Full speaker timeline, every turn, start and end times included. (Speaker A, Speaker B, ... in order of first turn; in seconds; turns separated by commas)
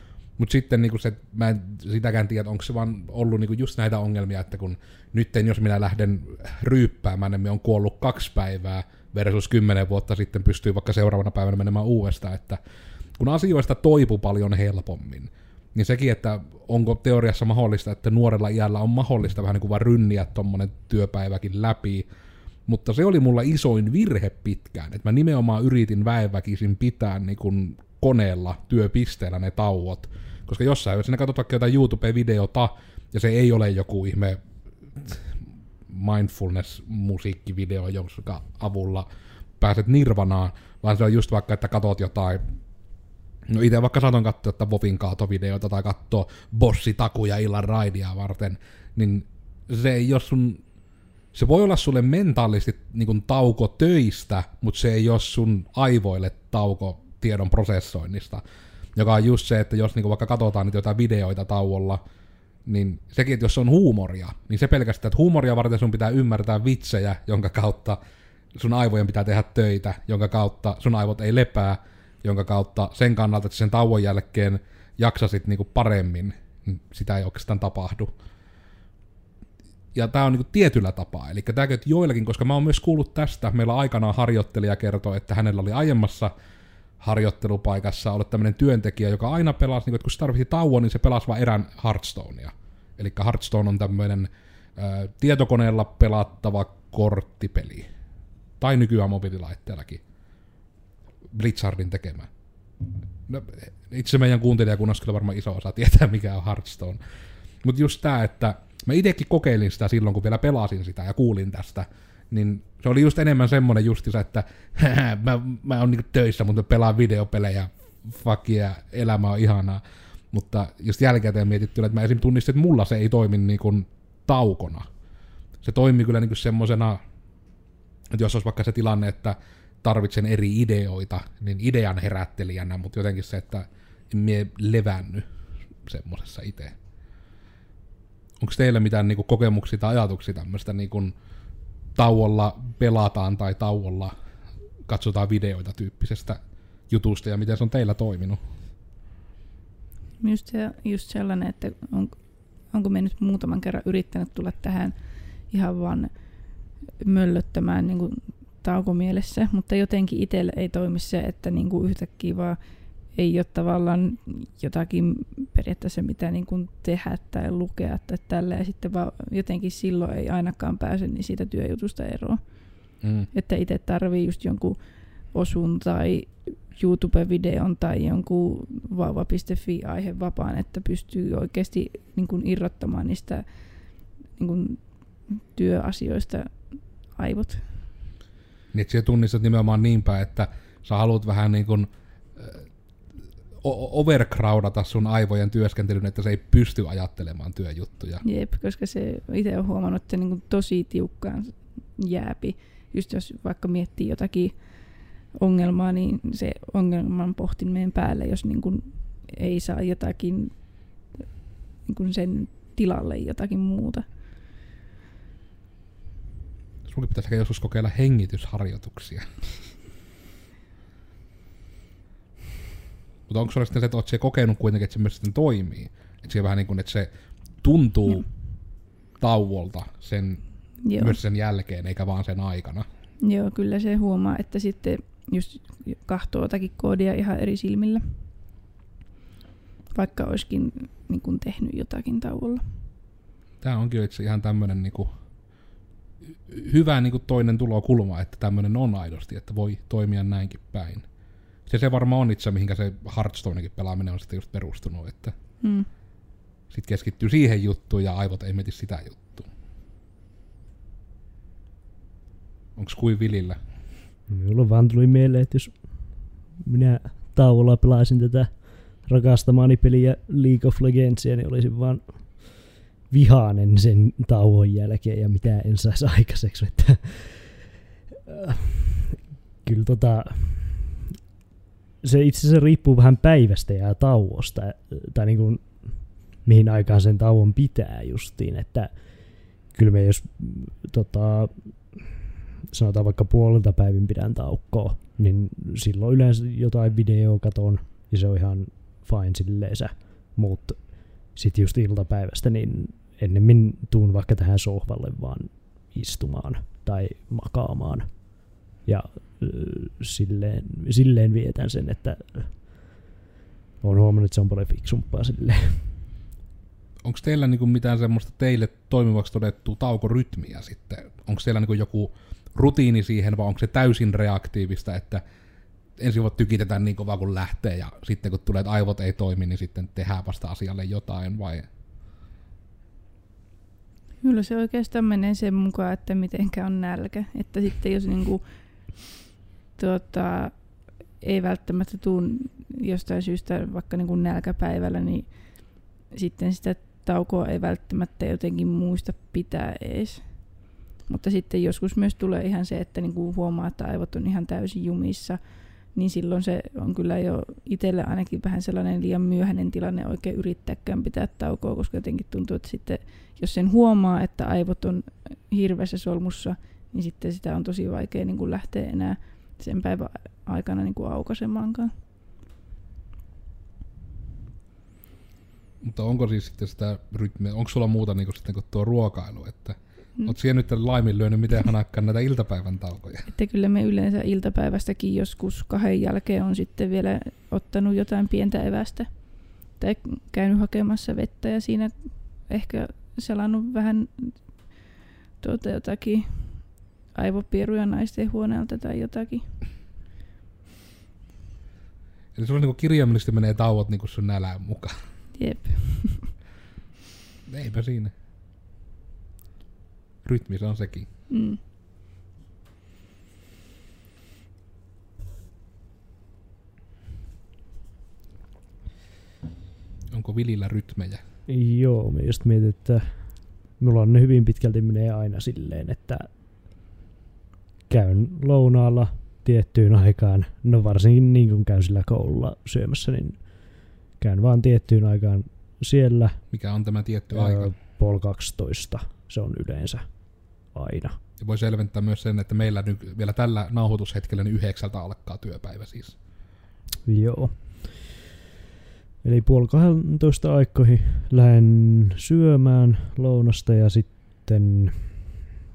Speaker A: 0.4-12.6, Speaker A: 13.2-22.1, Speaker A: 22.7-34.4, Speaker A: 35.0-35.3, Speaker A: 35.9-39.1, Speaker A: 39.6-42.4, Speaker A: 43.5-50.6, Speaker A: 51.3-58.4, Speaker A: 58.9-62.0, Speaker A: 62.6-68.0, Speaker A: 68.5-78.1, Speaker A: 79.9-86.3, Speaker A: 87.0-97.9, Speaker A: 98.6-100.0, Speaker A: 101.3-102.3, Speaker A: 103.3-107.0, Speaker A: 107.6-119.8, Speaker A: 120.3-124.9, Speaker A: 125.6-127.0, Speaker A: 128.1-135.2, Speaker A: 135.8-136.7, Speaker A: 138.4-141.1, Speaker A: 141.9-144.1, Speaker A: 144.9-148.4, Speaker B: 150.2-152.2, Speaker B: 152.7-154.9, Speaker B: 155.5-156.1, Speaker B: 157.0-162.6, Speaker B: 163.1-172.4, Speaker A: 173.0-173.3, Speaker B: 173.3-174.8, Speaker B: 175.3-183.4, Speaker B: 184.3-186.5, Speaker B: 187.1-187.7, Speaker A: 188.7-192.6, Speaker A: 193.6-198.2, Speaker B: 198.2-210.6, Speaker B: 211.8-214.1, Speaker A: 216.9-219.7, Speaker A: 223.3-227.1, Speaker A: 227.6-228.3, Speaker A: 229.2-230.4, Speaker B: 230.8-231.2, Speaker A: 231.0-232.8, Speaker B: 233.2-238.2, Speaker B: 239.9-242.6, Speaker A: 243.6-245.1, Speaker A: 246.5-251.1, Speaker A: 251.7-255.3, Speaker B: 255.6-255.9, Speaker A: 256.7-259.5, Speaker A: 262.8-263.6, Speaker C: 264.3-277.6, Speaker C: 278.2-280.9, Speaker C: 282.0-289.0, Speaker C: 289.5-292.1, Speaker C: 292.7-312.8, Speaker C: 313.8-315.9, Speaker A: 317.0-325.2, Speaker A: 326.0-331.7, Speaker B: 334.2-338.4, Speaker B: 339.8-371.9, Speaker A: 375.8-383.3, Speaker B: 383.3-394.9, Speaker B: 395.4-399.5, Speaker A: 402.3-404.9, Speaker B: 405.3-406.3, Speaker A: 407.5-408.1, Speaker A: 410.2-411.1, Speaker B: 411.3-411.6, Speaker A: 420.1-421.2, Speaker C: 421.5-426.3, Speaker C: 427.9-433.4, Speaker C: 434.1-436.4, Speaker A: 436.5-437.7, Speaker C: 437.3-440.1, Speaker C: 440.6-441.2, Speaker A: 441.4-446.2, Speaker C: 447.1-448.1, Speaker C: 449.2-455.2